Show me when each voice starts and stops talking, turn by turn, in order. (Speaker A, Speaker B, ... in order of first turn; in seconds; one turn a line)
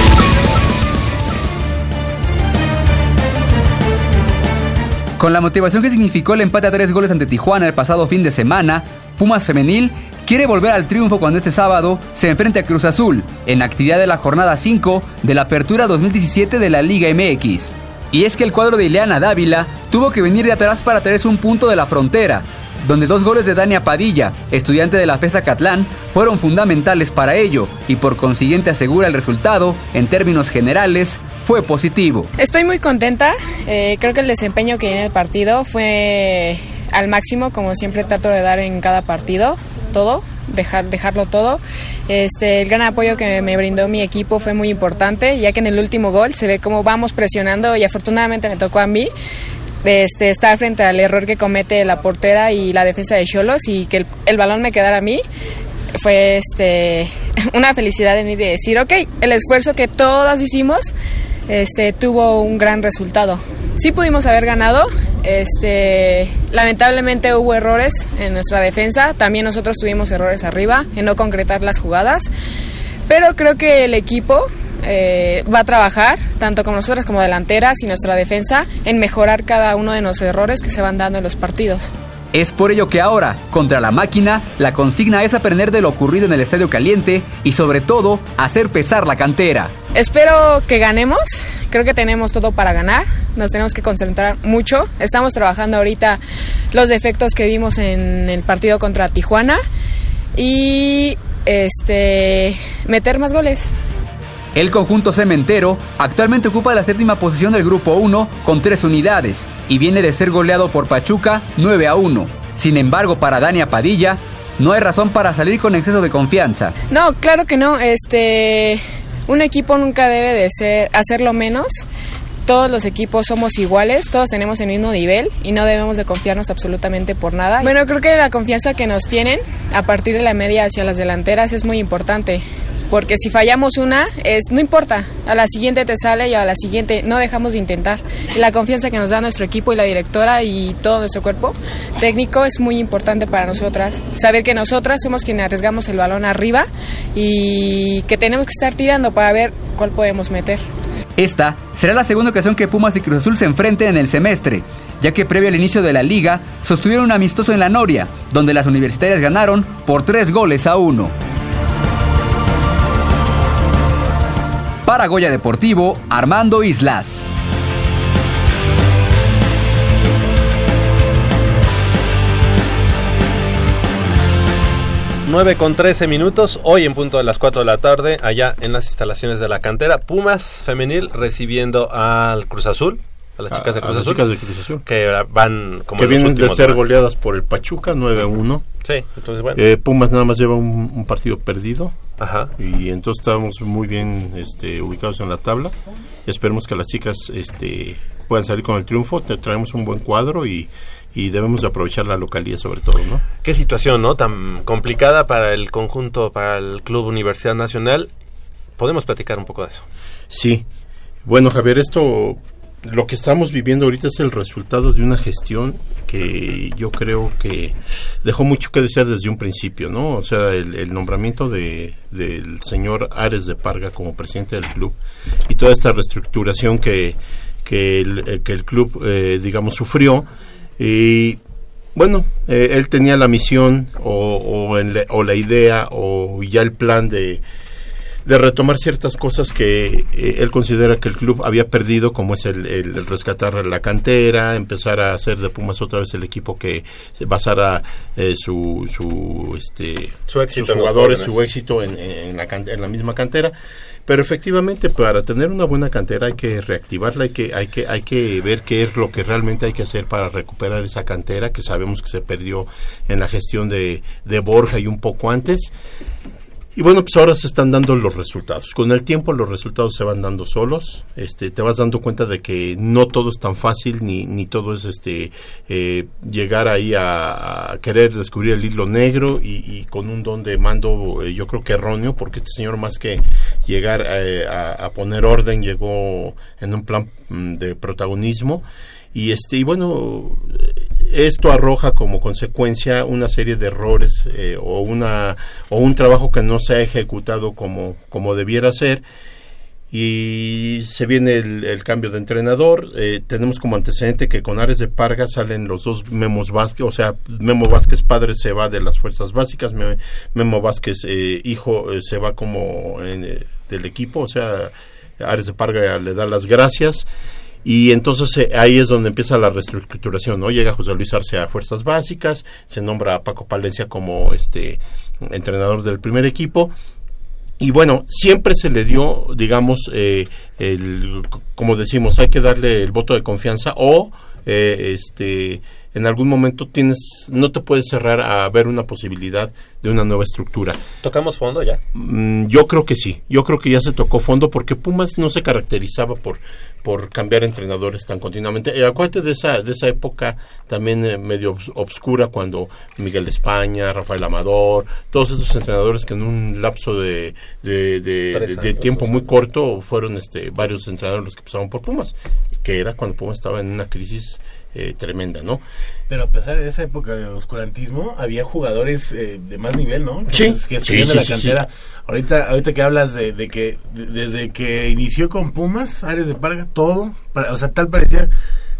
Speaker A: 5.2-32.3
Speaker B: 32.4-49.1
Speaker B: 49.8-55.2
Speaker B: 56.0-60.9
Speaker B: 61.5-72.3
Speaker B: 73.1-81.9
Speaker A: 82.3-89.7
Speaker B: 89.9-96.2
Speaker B: 96.7-99.6
Speaker B: 100.3-103.7
Speaker A: 104.5-116.7
Speaker B: 116.9-121.8
Speaker B: 122.5-150.6
Speaker A: 151.2-161.1
Speaker A: 164.9-167.3
Speaker C: 175.3-184.2
Speaker D: 183.5-184.8
Speaker C: 184.8-186.8
Speaker D: 186.0-188.6
Speaker C: 188.8-189.6
Speaker D: 189.5-192.0
Speaker C: 192.2-192.5
Speaker D: 192.6-195.8
Speaker D: 196.3-203.2
Speaker C: 203.4-208.1
Speaker C: 208.8-209.9
Speaker D: 210.3-210.7
Speaker D: 211.2-225.0
Speaker D: 225.5-230.3
Speaker D: 230.8-231.4
Speaker D: 231.9-237.4
Speaker D: 238.2-253.5
Speaker C: 250.3-251.3
Speaker D: 254.1-265.7
Speaker D: 266.8-299.0
Speaker D: 299.9-317.1
Speaker D: 317.6-326.7
Speaker D: 327.6-340.8
Speaker C: 341.0-341.8
Speaker D: 341.9-365.6
Speaker C: 358.3-359.2
Speaker E: 366.1-378.3
Speaker D: 370.3-371.6